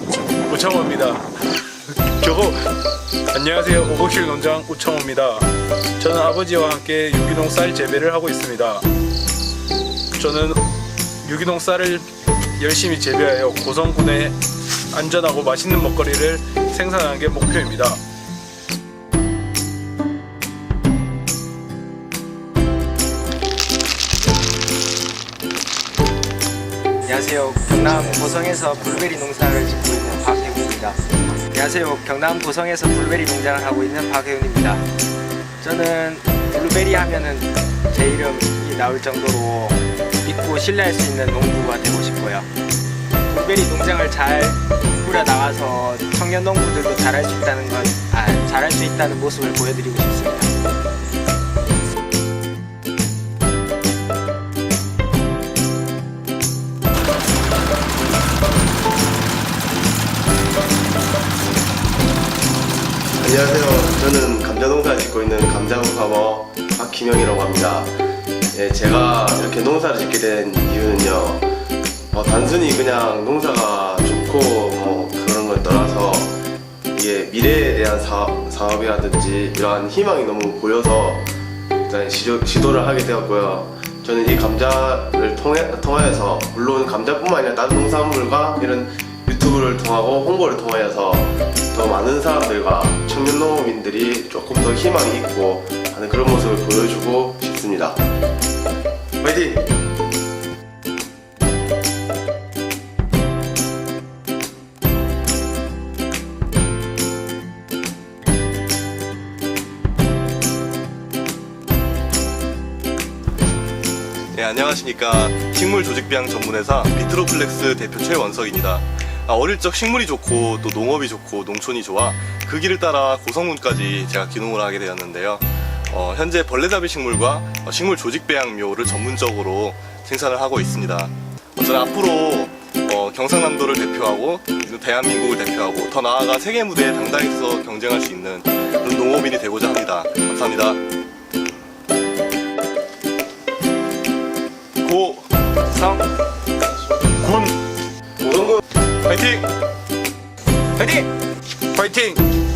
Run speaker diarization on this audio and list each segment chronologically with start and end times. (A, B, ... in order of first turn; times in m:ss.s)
0:00.5-0:01.2 A
0:02.1-0:02.6 A
0:03.3-0:08.9 A
0:10.2-0:10.6 A
0:11.2-0:12.1 A
0:12.6-0:14.4 A
0:14.9-0:18.0 A
0:27.0-0:34.8 B
0:35.6-0:42.5 B
0:43.3-0:50.5 B
1:03.2-1:07.9 C
1:08.5-1:11.5 C
1:12.1-1:16.4 C
1:16.9-1:21.3 C
1:21.8-1:38.0 C
1:39.2-1:39.7 C
1:54.3-2:20.8 D
2:24.8-2:25.2 D
2:25.7-2:26.1 B
2:27.2-2:27.5 A
2:28.2-2:28.6 C
2:29.1-2:29.4 D
2:31.7-2:32.2 A